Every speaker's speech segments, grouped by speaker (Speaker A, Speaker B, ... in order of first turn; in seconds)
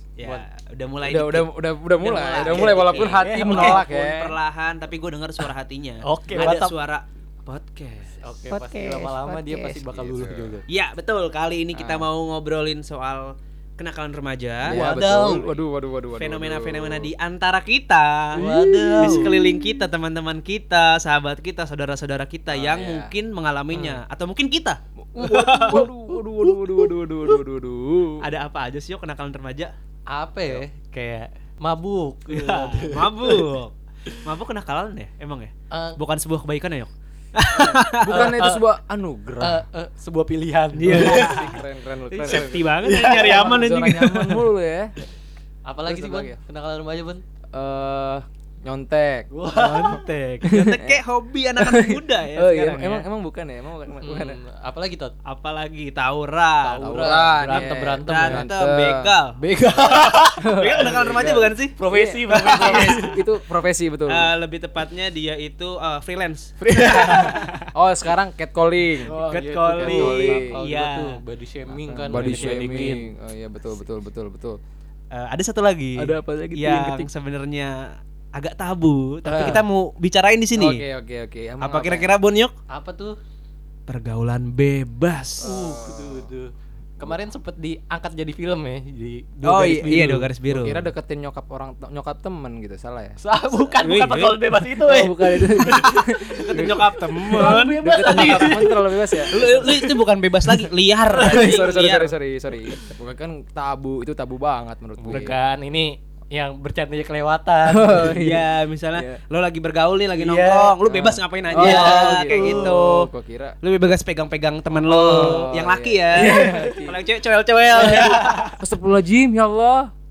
Speaker A: 0.2-1.5, 2.0-8.2, 10.7-15.5, 16.2-25.9, 28.2-29.7, 32.3-38.6, 40.8-44.5, 49.5-53.1, 55.2-61.7, 62.3-63.2, 64.1-67.7, 69.2-71.2, 72.1-72.9, 75.1-80.8, 81.6-82.5, 83.9-85.6, 89.4-90.9, 93.8-94.4, 95.8-98.6, 99.3-102.1, 108.0-113.1, 113.6-118.6
Speaker B: 1.0-4.3, 8.5-10.5, 11.7-12.0, 14.7-17.1, 18.4-19.9, 22.5-23.1, 25.1-28.3, 37.5-39.6, 40.8-44.9, 45.9-46.4, 47.5-51.0, 51.6-54.4, 56.8-59.1, 60.4-64.3, 66.7-69.1, 69.8-70.5, 71.9-74.6, 76.0-77.1, 80.5-82.1, 85.4-86.3, 90.5-93.2, 94.8-99.8, 101.1-105.3, 107.7-109.2, 110.8-113.5, 114.8-117.0, 117.8-119.9
Speaker C: 2.5-3.8, 6.0-6.7, 8.2-10.7, 14.7-15.4, 18.4-19.3, 23.7-24.0, 25.3-25.9, 30.1-33.5, 35.7-36.0, 38.1-38.6, 39.4-41.5, 42.9-43.4, 45.7-47.2, 49.3-50.0, 54.0-55.1, 56.6-58.5, 59.4-60.6, 61.8-63.1, 69.0-73.1, 79.3-79.6, 82.7-83.2, 85.4-90.3, 93.2-99.9, 101.1-101.9, 105.0-108.2, 110.2-110.8, 111.5-112.8, 114.9-115.5, 116.2-116.7, 117.7-118.5